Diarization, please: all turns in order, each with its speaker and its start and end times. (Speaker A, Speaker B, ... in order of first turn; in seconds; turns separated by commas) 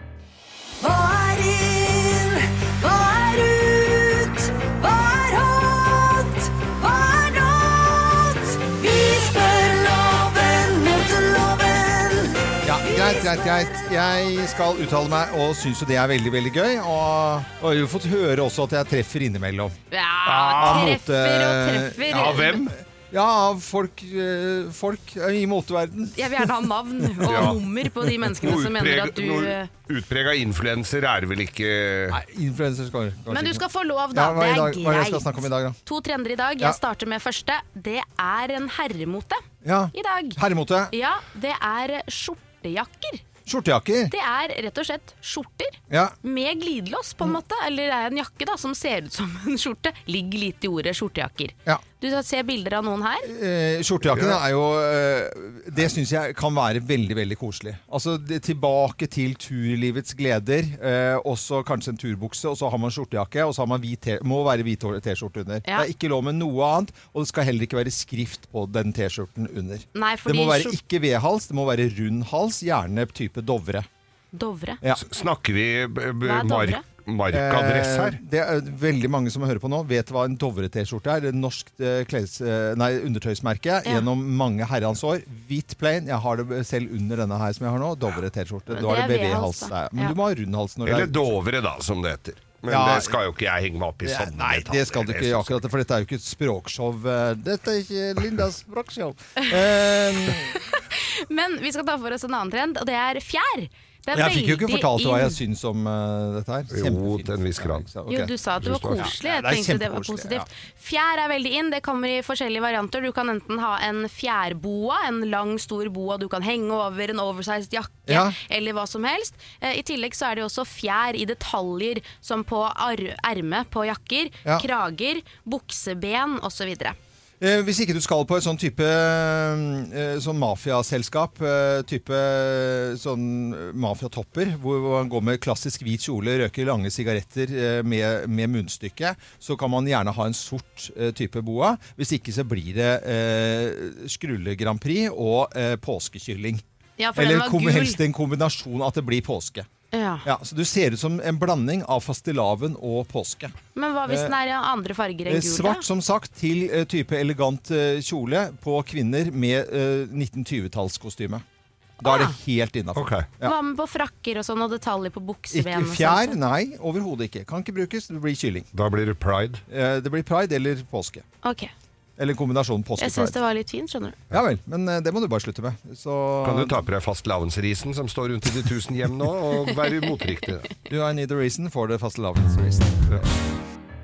Speaker A: 0.8-13.4, Speaker B: 12.6-19.8, Speaker C: 19.9-22.6, Speaker D: 20.2-21.0, Speaker B: 20.6-26.4, Speaker D: 22.1-22.7, Speaker C: 26.2-29.7, Speaker B: 27.2-27.6, Speaker D: 27.2-27.6, Speaker D: 28.4-32.2, Speaker B: 32.1-33.6, Speaker C: 33.3-35.3, Speaker B: 34.1-35.8, Speaker C: 35.9-39.4, Speaker B: 39.6-40.9, Speaker C: 39.9-40.4, Speaker C: 40.9-43.2, Speaker B: 43.5-44.1, Speaker C: 44.1-53.3, Speaker B: 45.9-46.1, Speaker B: 53.2-73.9, Speaker D: 54.1-54.4, Speaker C: 70.0-70.8, Speaker C: 74.3-74.8, Speaker D: 75.0-78.2, Speaker C: 76.2-76.8, Speaker B: 77.3-91.2, Speaker C: 88.7-90.2, Speaker D: 90.8-95.6, Speaker B: 92.7-93.2, Speaker B: 94.0-100.6, Speaker C: 100.2-105.4, Speaker B: 104.1-108.3, Speaker D: 106.7-107.9, Speaker C: 108.1-127.0, Speaker D: 108.6-109.1, Speaker B: 108.9-110.5, Speaker B: 118.1-118.4, Speaker B: 127.4-146.6, Speaker C: 147.0-148.0, Speaker B: 147.2-149.7, Speaker C: 149.9-150.2, Speaker B: 150.2-153.6, Speaker C: 153.8-155.8, Speaker B: 154.1-154.3, Speaker B: 155.3-161.4, Speaker C: 162.0-162.4, Speaker B: 162.0-163.6, Speaker D: 162.9-163.3, Speaker C: 163.4-166.4, Speaker B: 165.5-168.7, Speaker D: 168.7-169.6, Speaker B: 169.7-171.2, Speaker C: 171.4-171.7, Speaker B: 172.2-173.4, Speaker C: 173.0-174.2, Speaker B: 174.3-176.8, Speaker D: 176.4-180.7, Speaker B: 180.9-183.3